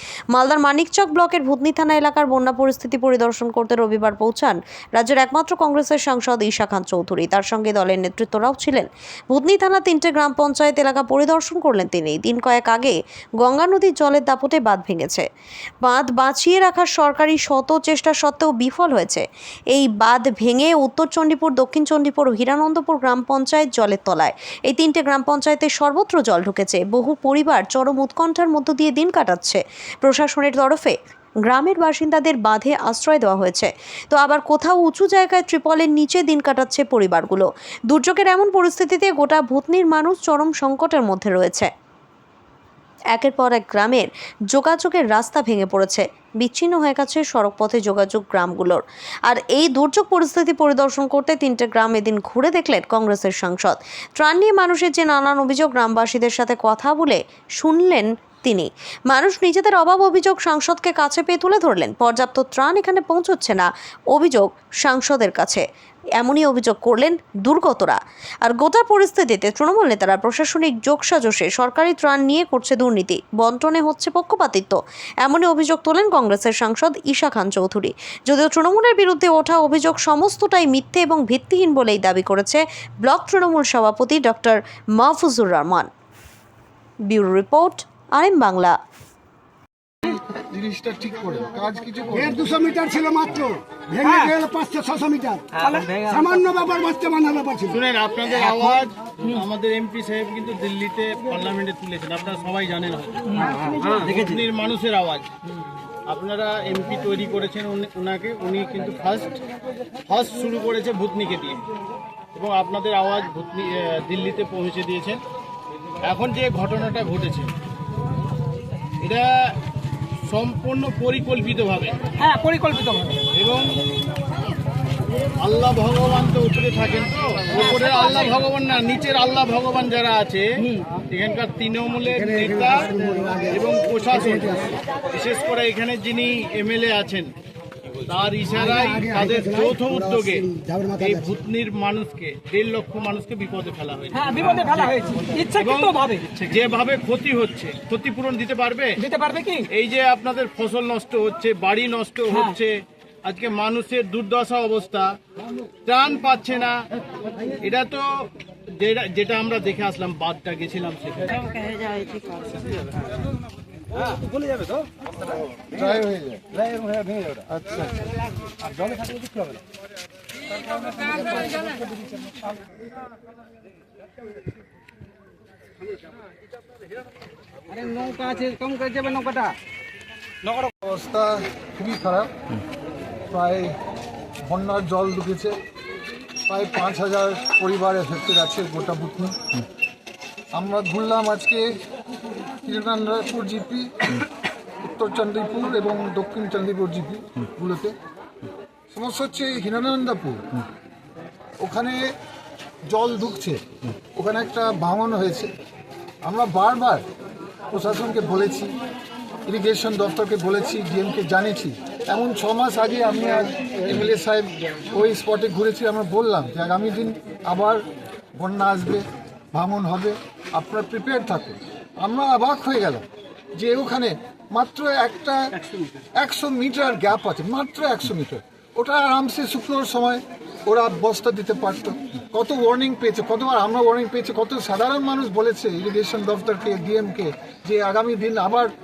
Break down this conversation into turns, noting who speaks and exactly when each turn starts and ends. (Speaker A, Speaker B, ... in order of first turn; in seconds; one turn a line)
Speaker A: 0.3-15.3
Speaker A: 15.8-41.7
Speaker A: 43.1-65.6
Speaker A: 66.2-85.9
Speaker A: 87.0-88.8
Speaker B: 90.0-92.5
Speaker C: 92.2-97.8
Speaker D: 94.1-94.3
Speaker D: 95.5-96.4
Speaker E: 97.7-105.3
Speaker D: 103.3-104.4
Speaker E: 106.1-109.4
Speaker E: 110.1-111.6
Speaker E: 112.3-115.2
Speaker E: 116.0-117.5
Speaker E: 119.0-119.6
Speaker E: 120.3-122.0
Speaker D: 122.2-123.2
Speaker E: 123.3-123.9
Speaker E: 125.4-130.5
Speaker D: 127.7-127.9
Speaker E: 131.1-137.3
Speaker C: 132.4-133.6
Speaker C: 134.2-134.6
Speaker E: 138.1-149.0
Speaker C: 138.8-141.3
Speaker D: 144.1-146.4
Speaker D: 149.0-149.7
Speaker E: 149.7-155.2
Speaker E: 155.8-156.8
Speaker E: 157.6-161.5
Speaker D: 161.5-162.5
Speaker B: 165.7-166.6
Speaker B: 167.5-167.9
Speaker D: 169.0-169.3
Speaker D: 171.2-171.6
Speaker D: 177.7-179.6
Speaker B: 180.6-182.3
Speaker B: 183.3-183.8
Speaker B: 184.5-185.6
Speaker B: 186.5-189.4
Speaker B: 190.5-191.8
Speaker B: 192.7-194.2
Speaker B: 194.8-197.9
Speaker B: 198.9-200.6
Speaker B: 201.6-202.0
Speaker B: 202.9-203.6
Speaker B: 204.2-205.5
Speaker B: 206.2-207.0
Speaker B: 207.7-208.7
Speaker B: 209.5-217.8
Speaker B: 218.4-225.6
Speaker B: 226.2-238.7